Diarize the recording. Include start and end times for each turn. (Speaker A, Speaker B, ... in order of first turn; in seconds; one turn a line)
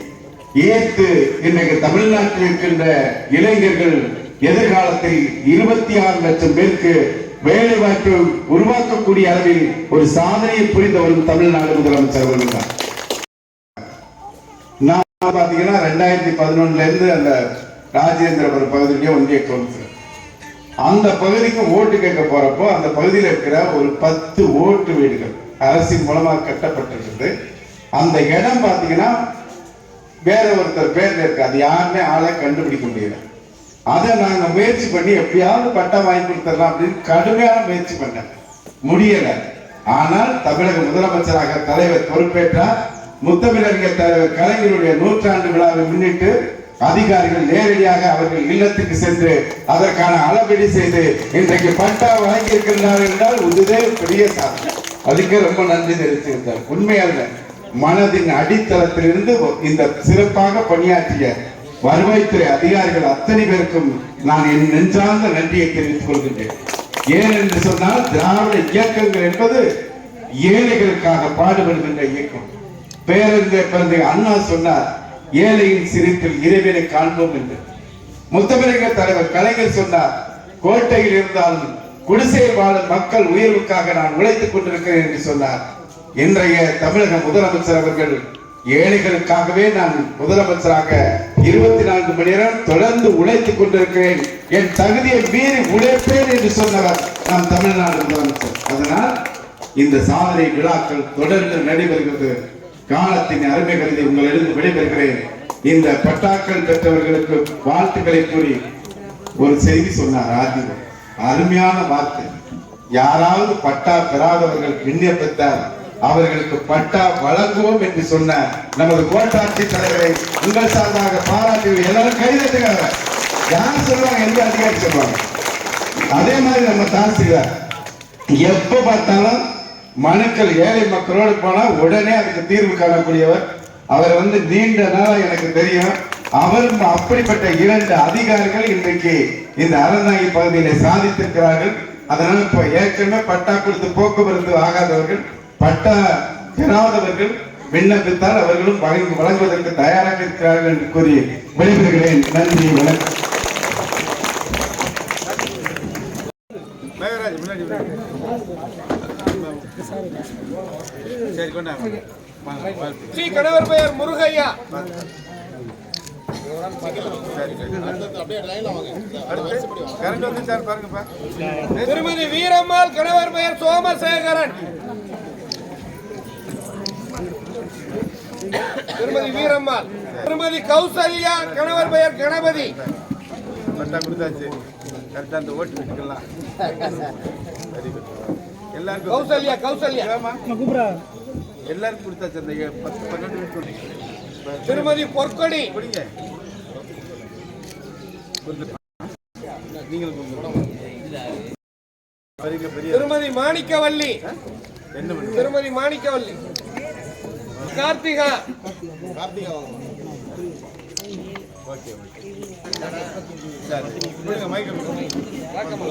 Speaker A: 0.6-12.7
Speaker A: 14.9-17.4
Speaker A: 17.9-19.9
Speaker A: 20.9-27.3
Speaker A: 28.0-29.1
Speaker A: 30.3-33.2
Speaker A: 33.9-38.3
Speaker A: 38.9-39.4
Speaker A: 39.9-42.7
Speaker A: 43.2-46.3
Speaker A: 46.8-57.3
Speaker A: 57.8-61.3
Speaker A: 61.9-66.5
Speaker A: 67.2-69.6
Speaker A: 70.5-72.5
Speaker A: 73.1-74.8
Speaker A: 75.4-77.6
Speaker A: 78.3-80.1
Speaker A: 80.6-85.6
Speaker A: 86.2-88.2
Speaker A: 88.8-99.1
Speaker A: 99.8-102.3
Speaker A: 102.9-108.6
Speaker A: 109.4-112.3
Speaker A: 113.0-122.9
Speaker A: 123.5-125.2
Speaker A: 126.1-127.5
Speaker A: 128.4-129.4
Speaker A: 130.0-146.0
Speaker A: 146.6-153.0
Speaker B: 157.0-157.8
Speaker B: 161.4-161.9
Speaker B: 162.5-163.1
Speaker C: 163.2-164.6
Speaker B: 167.4-167.7
Speaker B: 169.3-171.1
Speaker C: 171.8-174.5
Speaker C: 178.9-182.4
Speaker A: 183.8-184.4
Speaker B: 183.9-184.6
Speaker A: 185.2-185.8
Speaker B: 185.7-186.2
Speaker A: 188.8-189.1
Speaker C: 189.2-190.0
Speaker A: 191.7-192.4
Speaker B: 191.9-193.8
Speaker C: 194.7-195.8
Speaker B: 202.4-202.9
Speaker C: 202.9-204.2
Speaker C: 205.3-206.4
Speaker C: 207.8-208.4
Speaker B: 214.3-214.8